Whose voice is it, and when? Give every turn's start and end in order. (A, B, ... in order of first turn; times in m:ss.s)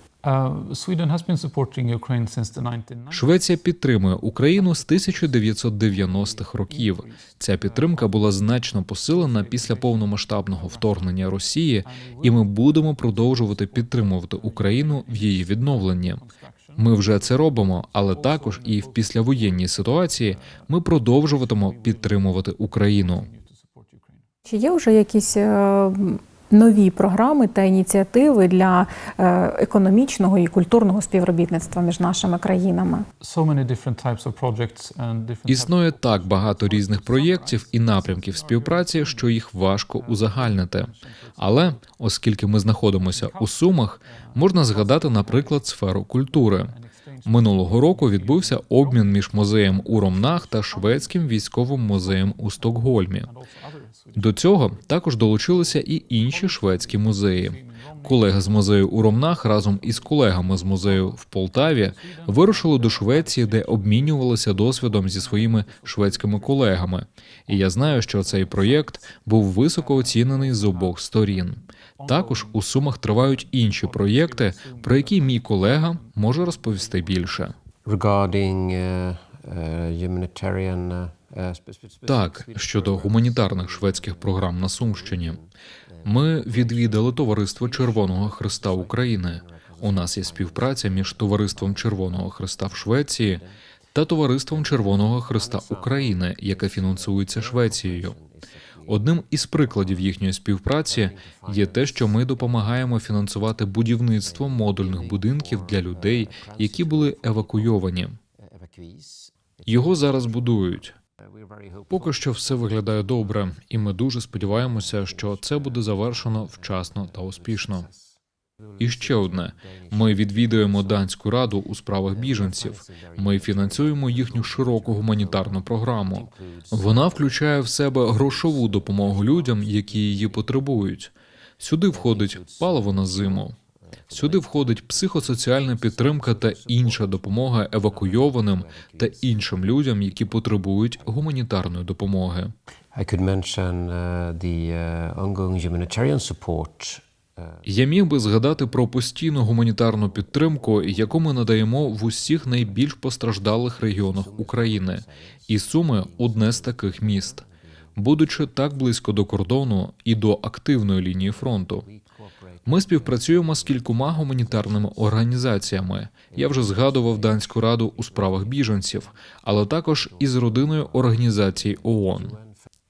0:00.2-0:03.6 A
0:03.1-0:16.2 B
0:04.5-0:08.4 A
0:09.0-0:11.2 A
0:11.8-0:24.2 A
0:16.8-0:23.3 B
0:24.5-0:33.1 C
0:33.2-0:39.4 A
0:35.5-0:46.8 B
0:39.9-0:41.8 A
0:43.0-0:45.7 A
0:46.3-0:54.8 A
0:47.2-0:53.3 B
0:54.2-1:17.5 B
0:55.5-1:06.9 A
1:07.5-1:11.1 A
1:12.0-1:12.6 A
1:13.2-1:17.5 A
1:17.8-1:32.7 D
1:22.1-1:25.4 B
1:26.0-1:33.4 B
1:33.3-1:33.6 D
1:33.9-1:38.2 B
1:34.5-1:40.1 D
1:38.9-1:48.2 B
1:40.9-1:42.8 D
1:44.2-1:47.8 D
1:48.4-1:50.7 D
1:49.7-1:50.9 B
1:51.3-1:52.4 D
1:51.9-1:57.9 B
1:54.4-1:58.2 D
1:58.8-2:01.0 D
1:58.8-2:13.6 B
2:02.1-2:10.6 D
2:11.9-2:13.5 D
2:14.1-2:21.2 D
2:14.1-2:22.5 B
2:22.9-2:27.6 D
2:27.7-2:37.4 B
2:30.4-2:31.4 D
2:32.1-2:32.8 D
2:33.9-2:35.4 D
2:35.9-2:37.5 D
2:38.0-2:41.8 B
2:41.5-2:45.2 D
2:42.7-2:52.4 B
2:46.3-2:49.1 D
2:50.0-2:52.5 D